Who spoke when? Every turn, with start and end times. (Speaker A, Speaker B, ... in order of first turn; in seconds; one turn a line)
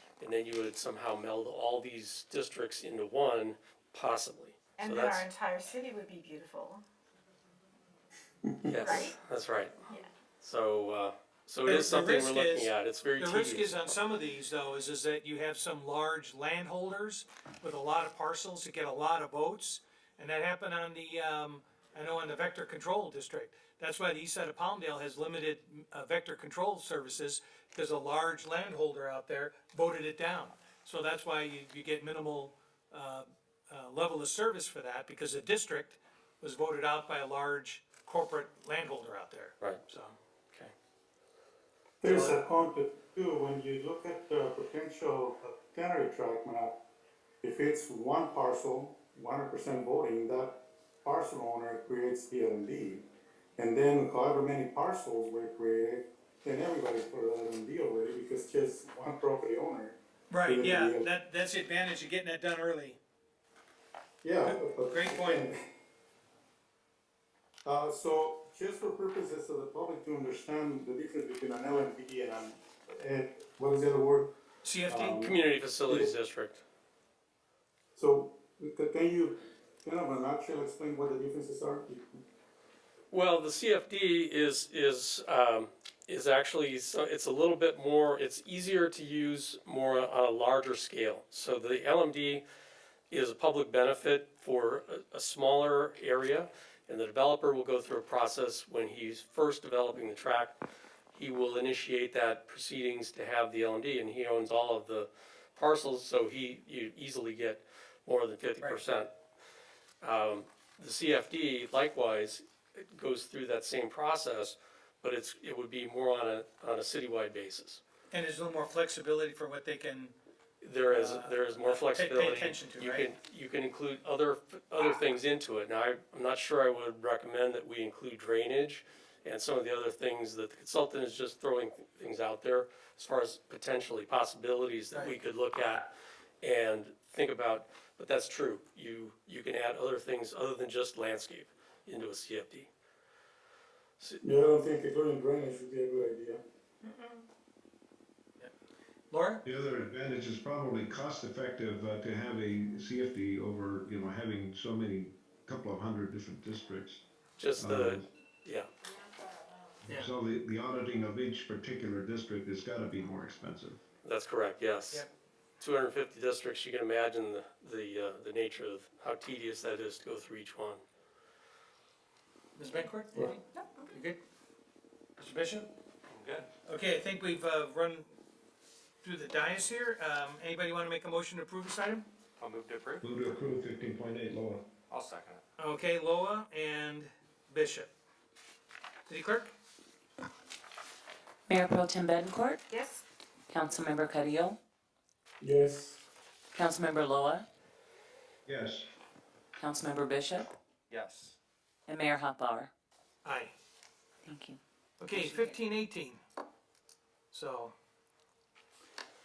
Speaker A: 0.2-5.3
Speaker B: 4.8-6.8
Speaker A: 8.6-9.7
Speaker B: 8.8-9.2
Speaker A: 10.4-13.7
Speaker C: 11.7-40.1
Speaker D: 42.0-46.8
Speaker C: 42.0-42.4
Speaker D: 47.4-61.1
Speaker C: 60.3-63.0
Speaker D: 64.2-65.6
Speaker C: 64.5-65.5
Speaker D: 67.7-74.3
Speaker C: 74.6-75.2
Speaker D: 74.9-75.4
Speaker A: 75.1-76.6
Speaker D: 78.0-82.2
Speaker A: 83.1-92.5
Speaker A: 93.1-100.6
Speaker A: 101.1-109.1
Speaker A: 110.0-117.8
Speaker C: 118.1-120.2
Speaker A: 120.6-135.9
Speaker C: 120.9-123.1
Speaker A: 136.4-142.7
Speaker D: 144.2-146.4
Speaker C: 149.1-149.4
Speaker E: 149.4-157.0
Speaker A: 157.4-158.7
Speaker E: 157.6-158.1
Speaker E: 159.8-163.8
Speaker A: 164.0-165.1
Speaker A: 165.6-170.8
Speaker C: 172.6-174.2
Speaker C: 175.2-175.7
Speaker F: 176.1-176.5
Speaker C: 176.7-178.1
Speaker C: 179.0-182.1
Speaker F: 182.4-183.0
Speaker E: 183.0-184.7
Speaker F: 184.9-185.4
Speaker C: 185.6-187.9
Speaker C: 189.1-189.5
Speaker G: 191.5-192.6
Speaker B: 192.7-193.0
Speaker G: 193.5-194.6
Speaker D: 195.4-196.0
Speaker G: 196.5-197.4
Speaker E: 198.5-198.9
Speaker G: 199.6-200.5
Speaker F: 200.9-201.3
Speaker G: 201.9-202.7
Speaker C: 203.2-203.5
Speaker G: 204.3-204.6
Speaker C: 205.0-206.2
Speaker C: 207.3-207.7